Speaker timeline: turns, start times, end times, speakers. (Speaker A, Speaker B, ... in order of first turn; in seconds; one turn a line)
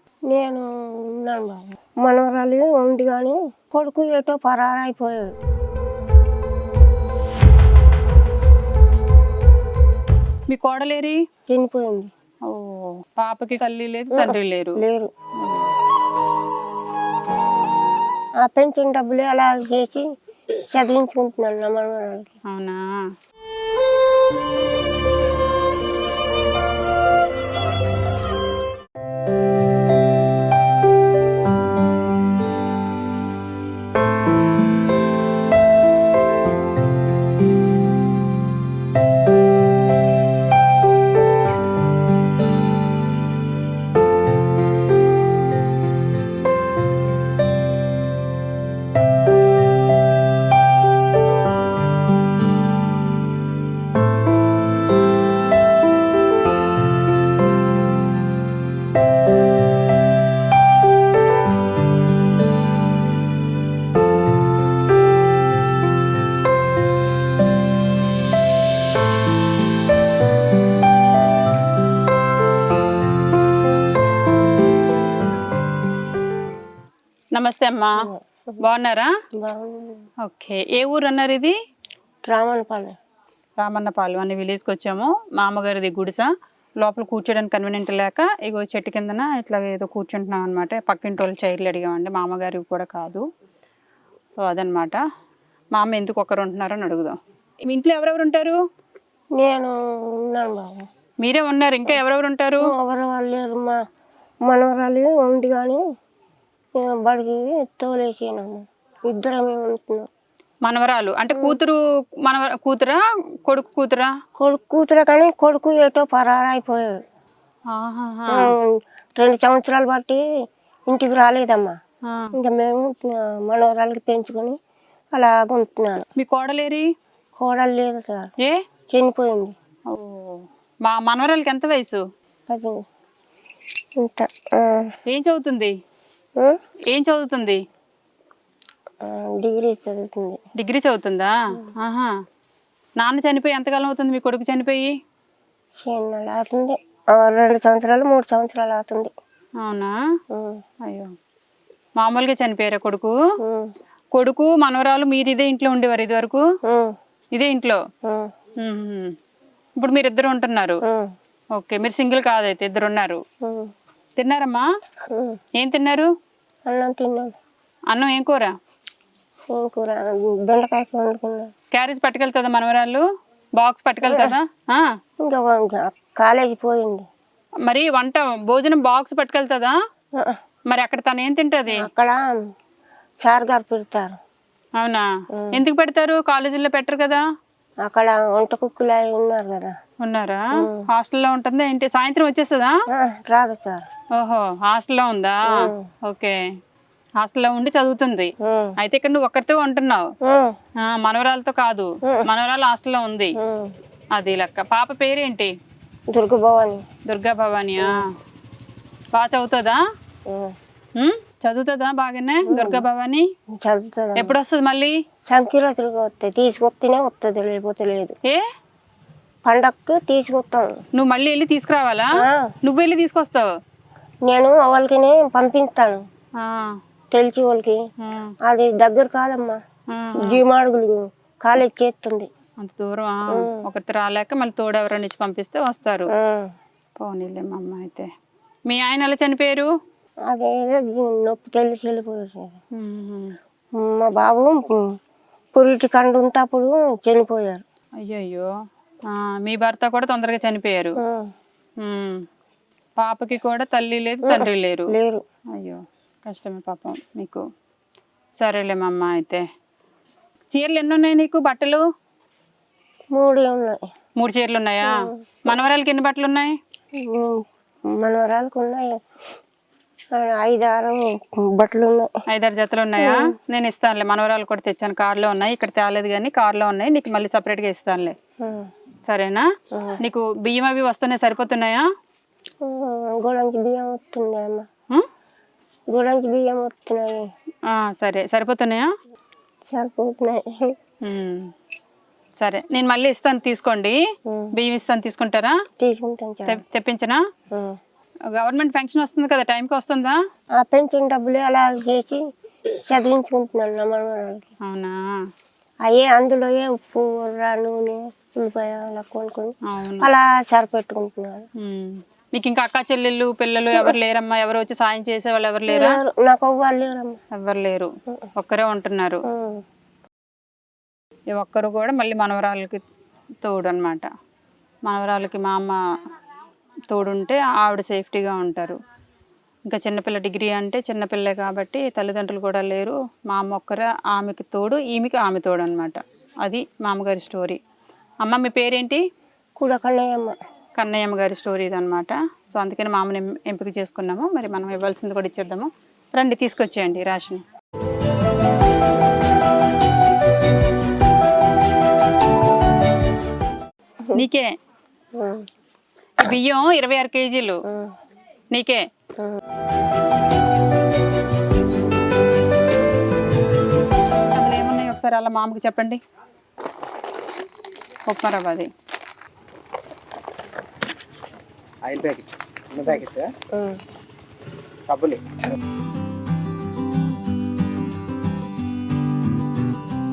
Speaker A: 0.3-5.3
Speaker B: 10.5-11.2
Speaker A: 11.5-12.1
Speaker B: 12.4-14.8
Speaker A: 14.1-15.1
Speaker B: 15.4-15.7
Speaker A: 18.4-20.1
Speaker A: 20.7-22.4
Speaker B: 22.5-23.1
Speaker B: 77.3-78.0
Speaker A: 78.0-78.6
Speaker B: 78.6-79.1
Speaker A: 79.4-80.0
Speaker B: 80.2-81.5
Speaker A: 82.3-82.9
Speaker B: 83.6-86.3
Speaker B: 86.8-93.2
Speaker B: 94.4-95.0
Speaker B: 95.7-98.6
Speaker A: 99.4-100.8
Speaker B: 101.2-102.7
Speaker A: 102.6-103.8
Speaker A: 104.5-105.8
Speaker A: 106.8-110.1
Speaker B: 110.6-114.2
Speaker A: 114.4-117.0
Speaker B: 117.7-118.5
Speaker A: 118.3-120.2
Speaker A: 120.9-121.7
Speaker B: 122.0-122.3
Speaker A: 122.3-124.6
Speaker A: 125.1-126.1
Speaker B: 126.2-126.9
Speaker A: 127.4-128.3
Speaker A: 128.9-129.5
Speaker B: 129.9-132.0
Speaker A: 132.5-132.8
Speaker A: 134.0-134.9
Speaker B: 135.1-135.7
Speaker B: 136.9-137.6
Speaker A: 139.1-140.4
Speaker B: 140.6-142.1
Speaker B: 143.0-144.9
Speaker A: 145.8-149.1
Speaker B: 149.6-149.9
Speaker A: 150.3-150.6
Speaker B: 150.8-151.1
Speaker B: 152.0-153.1
Speaker A: 153.4-153.7
Speaker B: 154.1-156.4
Speaker A: 156.6-156.9
Speaker B: 157.3-157.8
Speaker A: 158.0-158.3
Speaker B: 158.6-159.2
Speaker B: 159.8-160.8
Speaker B: 161.6-163.2
Speaker A: 163.4-163.7
Speaker B: 164.2-164.6
Speaker B: 165.6-166.1
Speaker A: 166.7-167.3
Speaker B: 167.9-168.5
Speaker A: 169.5-171.5
Speaker B: 171.7-173.0
Speaker B: 173.6-174.9
Speaker A: 174.0-174.4
Speaker A: 175.2-177.1
Speaker B: 177.7-179.8
Speaker B: 180.7-181.9
Speaker A: 181.7-182.3
Speaker A: 183.2-184.1
Speaker B: 184.8-187.2
Speaker A: 185.3-185.6
Speaker A: 187.8-189.7
Speaker B: 190.0-192.7
Speaker A: 190.6-190.9
Speaker A: 192.9-193.8
Speaker B: 194.2-196.4
Speaker A: 195.5-195.9
Speaker B: 197.2-200.1
Speaker A: 198.4-198.7
Speaker A: 200.2-200.6
Speaker B: 200.8-203.3
Speaker A: 203.4-203.7
Speaker B: 204.2-205.5
Speaker A: 206.1-206.8
Speaker B: 207.1-208.1
Speaker B: 209.1-209.8
Speaker A: 210.3-210.5
Speaker B: 210.9-213.3
Speaker A: 212.4-212.8
Speaker A: 213.6-214.3
Speaker B: 214.2-214.9
Speaker A: 215.3-218.2
Speaker A: 219.4-220.7
Speaker B: 220.9-223.5
Speaker A: 222.2-222.5
Speaker A: 224.3-226.0
Speaker B: 226.4-226.8
Speaker A: 227.1-227.8
Speaker B: 228.0-228.3
Speaker A: 228.4-229.6
Speaker B: 229.9-230.4
Speaker A: 230.2-232.3
Speaker B: 232.6-236.1
Speaker A: 233.3-233.7
Speaker A: 236.1-236.5
Speaker B: 237.0-238.1
Speaker B: 238.7-239.7
Speaker A: 240.3-242.6
Speaker B: 242.7-243.4
Speaker A: 243.8-244.9
Speaker A: 245.5-247.6
Speaker B: 248.0-248.5
Speaker B: 249.1-251.0
Speaker A: 251.0-251.3
Speaker B: 251.8-252.2
Speaker B: 253.0-254.9
Speaker A: 254.2-255.2
Speaker B: 255.5-257.4
Speaker B: 258.4-259.4
Speaker B: 260.5-261.8
Speaker A: 263.1-263.8
Speaker B: 264.2-266.6
Speaker A: 264.8-265.6
Speaker A: 267.0-269.0
Speaker A: 270.1-272.1
Speaker B: 272.3-278.1
Speaker A: 273.0-273.3
Speaker A: 278.4-278.7
Speaker B: 279.1-279.4
Speaker A: 279.7-280.0
Speaker B: 280.0-281.8
Speaker A: 282.6-284.6
Speaker A: 285.9-287.3
Speaker B: 287.7-288.9
Speaker A: 289.7-290.5
Speaker B: 291.0-291.5
Speaker B: 292.4-294.0
Speaker A: 294.3-294.5
Speaker B: 294.5-295.6
Speaker A: 295.8-296.6
Speaker B: 296.5-297.2
Speaker A: 297.5-297.8
Speaker B: 298.3-300.2
Speaker A: 300.6-304.5
Speaker B: 304.6-305.2
Speaker A: 305.9-311.5
Speaker B: 309.6-310.1
Speaker B: 311.6-316.0
Speaker A: 315.7-317.2
Speaker B: 317.4-319.2
Speaker A: 319.3-319.6
Speaker B: 321.3-322.8
Speaker B: 323.4-324.1
Speaker B: 324.9-325.8
Speaker B: 326.9-328.8
Speaker B: 329.7-337.6
Speaker B: 338.2-339.0
Speaker A: 339.6-340.4
Speaker B: 340.8-347.4
Speaker B: 354.1-354.5
Speaker A: 355.1-355.5
Speaker B: 356.2-357.6
Speaker A: 357.7-357.9
Speaker B: 358.5-358.9
Speaker B: 364.3-366.0
Speaker B: 368.1-368.7
Speaker C: 371.8-373.3
Speaker A: 373.5-373.8
Speaker C: 374.8-375.4